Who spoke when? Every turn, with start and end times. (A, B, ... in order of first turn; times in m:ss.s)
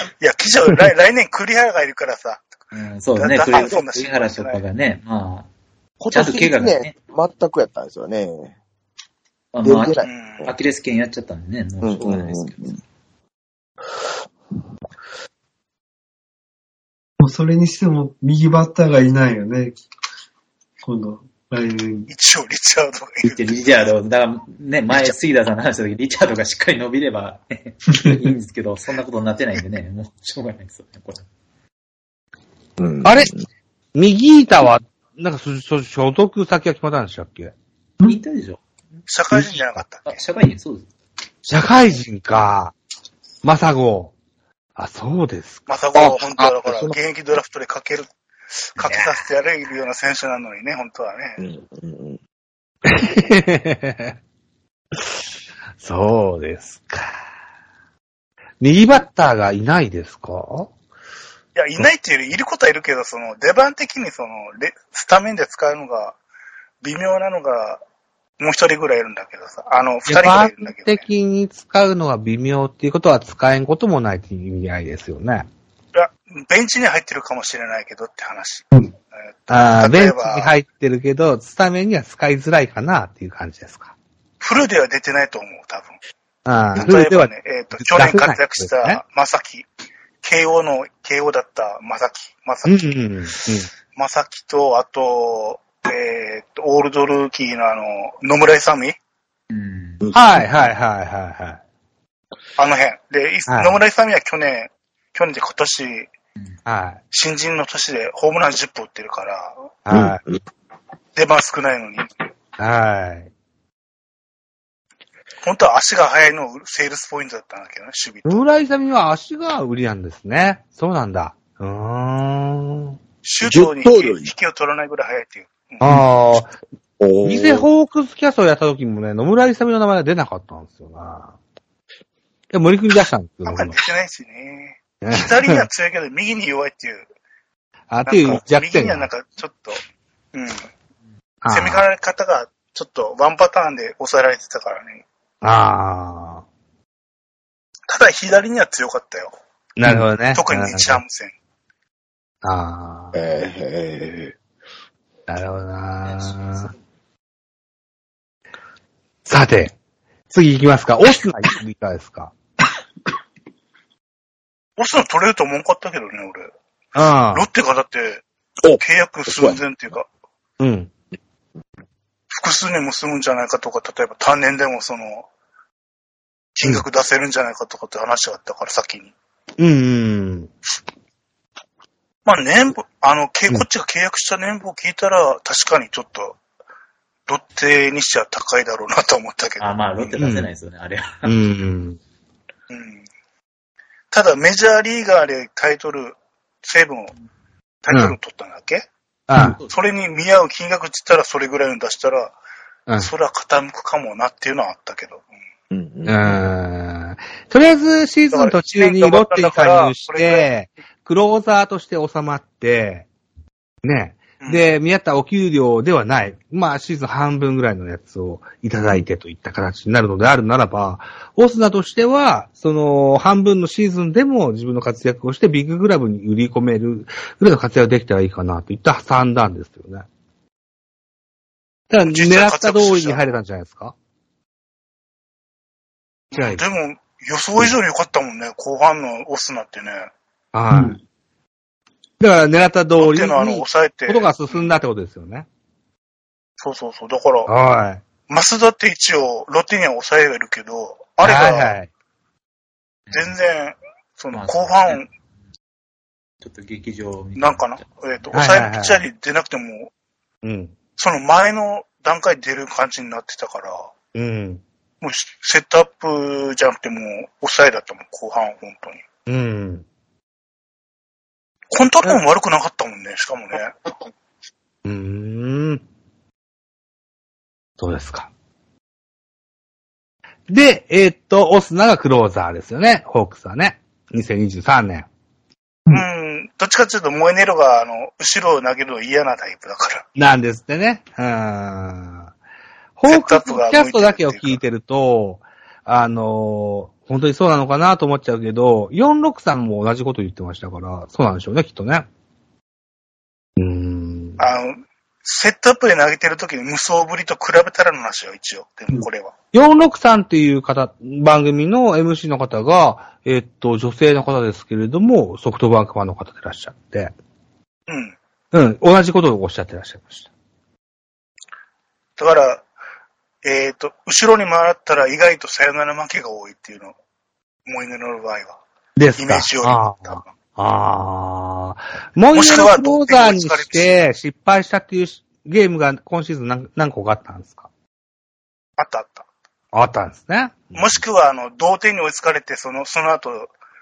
0:00.2-0:02.5 A
0:02.7-0:05.5 B
0:03.2-0:04.6 A
0:06.0-0:08.6 C
0:06.1-0:06.9 B
0:09.5-0:12.8 B
0:09.6-0:10.5 C
0:10.0-0:10.5 A
0:11.8-0:12.7 C
0:17.2-0:19.8 D
0:20.8-0:22.1 D
0:22.1-0:23.6 A
0:23.2-0:31.2 B
0:27.9-0:28.2 D
0:32.8-0:33.4 C
0:33.0-0:33.3 E
0:34.0-0:37.5 E
0:38.0-0:38.6 B
0:39.1-0:40.2 A
0:40.0-0:40.9 B
0:41.5-0:42.8 E
0:43.4-0:44.1 E
0:44.8-0:45.7 E
0:45.7-0:48.1 A
0:46.0-0:47.0 C
0:48.8-0:51.4 A
0:51.4-0:52.2 C
0:52.8-0:54.2 E
0:55.8-0:57.1 E
0:58.6-1:00.7 E
1:01.6-1:06.2 A
1:06.8-1:07.8 A
1:08.4-1:11.0 A
1:10.1-1:15.5 E
1:16.0-1:18.7 A
1:19.2-1:20.5 A
1:19.5-1:23.9 E
1:24.4-1:26.0 A
1:26.4-1:29.0 E
1:26.8-1:29.7 A
1:30.2-1:32.9 A
1:32.6-1:33.7 E
1:33.9-1:39.0 A
1:39.5-1:40.0 B
1:40.0-1:40.5 C
1:40.1-1:41.6 E
1:42.6-1:46.1 A
1:43.5-1:43.8 E
1:46.7-1:47.0 E
1:47.1-1:49.6 A
1:49.8-1:50.2 E
1:49.9-1:50.4 C
1:51.2-1:52.1 A
1:52.6-1:53.3 E
1:55.4-1:58.5 A
1:58.2-2:03.0 E
2:03.2-2:06.0 A
2:03.4-2:04.3 C
2:05.8-2:06.5 E
2:07.0-2:07.7 C
2:07.2-2:11.4 E
2:12.5-2:13.8 E
2:13.5-2:17.0 A
2:15.0-2:15.7 E
2:17.9-2:19.1 E
2:18.1-2:19.8 A
2:20.3-2:20.7 A
2:21.4-2:21.8 E
2:21.5-2:25.0 A
2:25.4-2:26.4 E
2:27.9-2:29.3 A
2:29.8-2:31.0 E
2:30.3-2:31.3 A
2:32.4-2:33.2 E
2:33.1-2:34.4 C
2:35.3-2:36.7 E
2:39.3-2:39.8 E
2:40.3-2:42.3 E
2:44.8-2:46.5 A
2:47.0-2:47.5 E
2:47.3-2:48.2 A
2:48.6-2:49.6 C
2:48.8-2:50.1 A
2:50.6-2:50.9 E
2:52.3-2:55.3 A
2:56.6-2:59.1 A
2:59.6-3:00.5 E
3:02.3-3:06.4 A
3:07.3-3:10.1 A
3:09.6-3:11.3 B
3:10.2-3:10.5 E
3:11.2-3:12.0 E
3:12.7-3:13.0 A
3:14.1-3:17.1 A
3:17.8-3:18.9 A
3:17.9-3:18.2 E
3:19.3-3:19.6 E
3:19.4-3:19.8 B
3:19.7-3:22.4 A
3:23.0-3:25.3 A
3:25.7-3:26.5 C
3:26.1-3:33.1 E
3:28.3-3:30.5 A
3:33.8-3:50.1 E
3:34.4-3:34.7 A
3:51.9-3:53.9 E
3:52.1-3:53.2 A
3:56.3-4:00.1 A
3:56.3-3:56.6 E
4:00.5-4:01.0 E
4:00.7-4:01.0 D
4:02.2-4:05.5 E
4:03.0-4:04.7 A
4:06.6-4:07.5 A
4:07.5-4:08.0 E
4:08.3-4:11.8 A
4:11.2-4:11.9 E
4:13.1-4:13.3 B
4:13.1-4:15.1 A
4:14.3-4:15.1 B
4:16.4-4:17.9 B
4:17.4-4:19.9 A
4:18.3-4:19.0 E
4:20.4-4:20.7 E
4:21.0-4:23.9 A
4:24.1-4:24.6 E
4:25.0-4:29.0 A
4:29.3-4:29.8 E
4:31.7-4:33.9 A
4:34.8-4:35.8 E
4:37.8-4:38.3 E
4:40.5-4:45.1 E
4:45.9-4:50.1 A
4:50.2-4:52.3 E
4:53.0-5:02.1 E
4:53.1-4:54.6 A
5:03.6-5:04.4 E
5:04.4-5:09.3 A
5:09.5-5:17.1 E
5:17.9-5:18.2 A
5:18.5-5:20.3 E
5:22.2-5:22.6 A
5:23.4-5:27.0 A
5:27.7-5:28.6 A
5:29.0-5:37.7 E
5:29.2-5:30.3 A
5:32.3-5:34.0 A
5:38.8-5:39.3 A
5:39.7-5:41.0 E
5:40.7-5:43.5 A